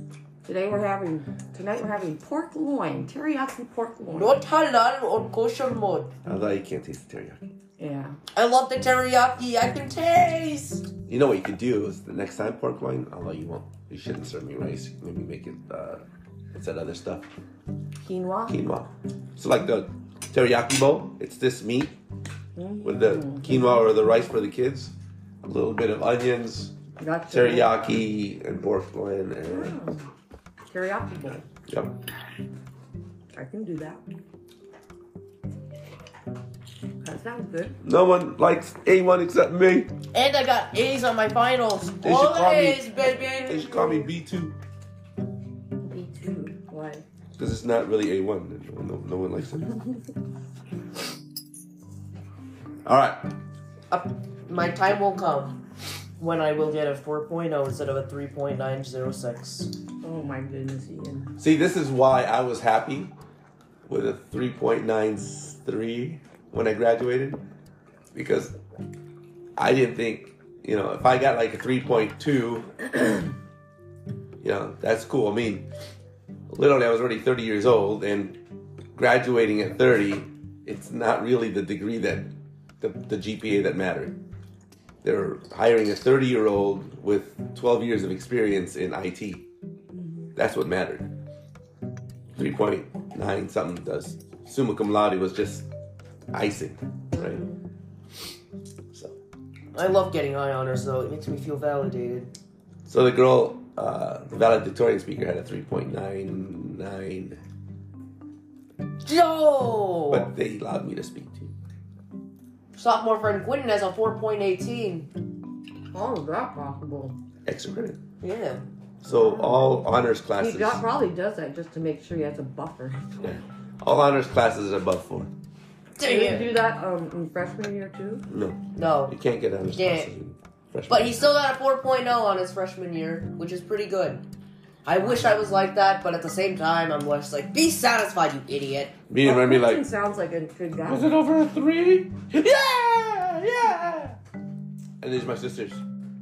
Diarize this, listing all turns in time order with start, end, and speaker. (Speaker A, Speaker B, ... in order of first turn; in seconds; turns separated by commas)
Speaker A: 0.4-4.4, Speaker B: 4.1-6.1, Speaker C: 6.2-7.4, Speaker A: 7.8-8.2, Speaker B: 8.3-10.9, Speaker C: 11.1-17.3, Speaker A: 18.0-18.6, Speaker C: 18.5-22.0, Speaker A: 22.6-23.7, Speaker C: 22.8-24.9, Speaker C: 25.4-26.7, Speaker A: 27.0-28.0, Speaker C: 27.3-29.8, Speaker A: 29.4-30.1, Speaker A: 30.7-31.4, Speaker C: 31.7-31.9, Speaker A: 33.3-34.0, Speaker A: 37.0-37.8, Speaker C: 37.8-39.9, Speaker B: 40.1-43.6, Speaker C: 42.0-42.9, Speaker C: 43.4-44.6, Speaker A: 43.7-44.1, Speaker A: 45.8-47.0, Speaker C: 47.4-49.6, Speaker C: 52.8-53.3, Speaker B: 53.9-55.6, Speaker B: 56.2-59.7, Speaker A: 60.0-61.4, Speaker C: 61.4-63.1, Speaker C: 63.9-67.4, Speaker C: 68.1-68.5, Speaker C: 69.6-73.2, Speaker C: 74.4-75.7, Speaker C: 76.5-78.4, Speaker C: 78.9-84.2, Speaker C: 85.0-89.4, Speaker A: 90.0-90.3, Speaker C: 90.3-91.1, Speaker C: 92.3-95.7, Speaker C: 96.3-97.4, Speaker A: 97.1-97.5, Speaker B: 99.7-102.3, Speaker C: 102.9-107.4, Speaker B: 109.0-110.3, Speaker C: 110.1-111.5, Speaker B: 112.7-115.1, Speaker A: 115.9-117.2, Speaker C: 117.5-118.0, Speaker B: 118.2-118.6, Speaker C: 119.0-120.8, Speaker A: 119.0-123.4, Speaker C: 123.2-125.3, Speaker B: 126.0-126.6, Speaker A: 126.0-128.2, Speaker C: 128.3-131.3, Speaker B: 128.7-129.1, Speaker B: 129.7-130.1, Speaker B: 130.9-134.2, Speaker B: 134.8-138.9, Speaker C: 139.1-139.8, Speaker A: 139.2-141.1, Speaker C: 140.9-144.2, Speaker C: 145.0-145.8